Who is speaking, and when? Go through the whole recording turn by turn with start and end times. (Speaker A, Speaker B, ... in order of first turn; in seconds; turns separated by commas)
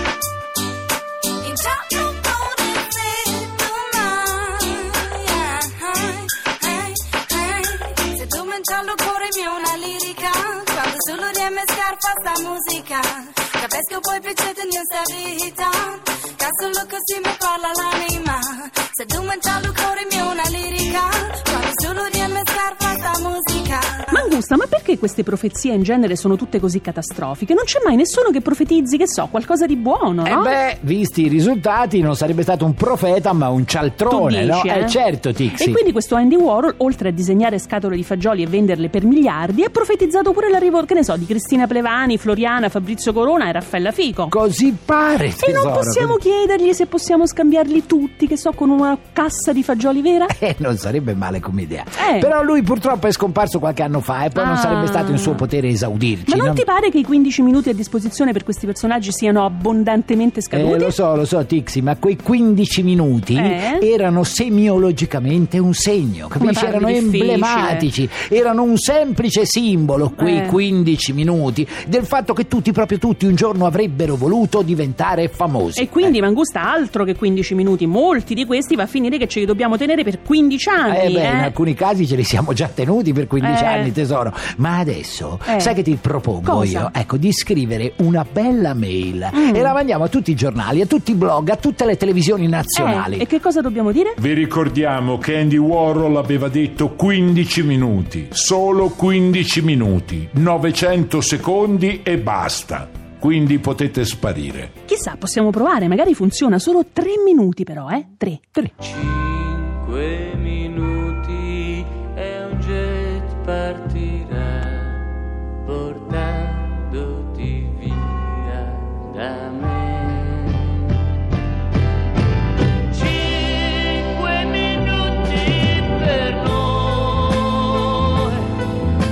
Speaker A: 1.4-24.3, Speaker B: 24.1-30.6, Speaker C: 30.2-35.8, Speaker B: 34.1-35.0, Speaker B: 35.5-44.4, Speaker C: 44.3-46.2, Speaker B: 45.4-50.4, Speaker C: 50.3-56.6, Speaker B: 52.0-52.3, Speaker B: 54.4-55.4, Speaker B: 56.3-61.0, Speaker C: 60.5-76.2, Speaker B: 63.4-63.9, Speaker B: 66.4-67.9, Speaker B: 70.2-70.6, Speaker B: 75.8-81.5, Speaker C: 80.9-93.3, Speaker B: 83.4-83.9, Speaker B: 85.5-85.8, Speaker B: 86.4-86.9, Speaker B: 89.3-89.8, Speaker B: 92.8-94.2, Speaker D: 94.2-104.7, Speaker B: 104.9-108.8, Speaker E: 108.8-115.0, Speaker E: 115.7-120.9, Speaker E: 122.9-128.5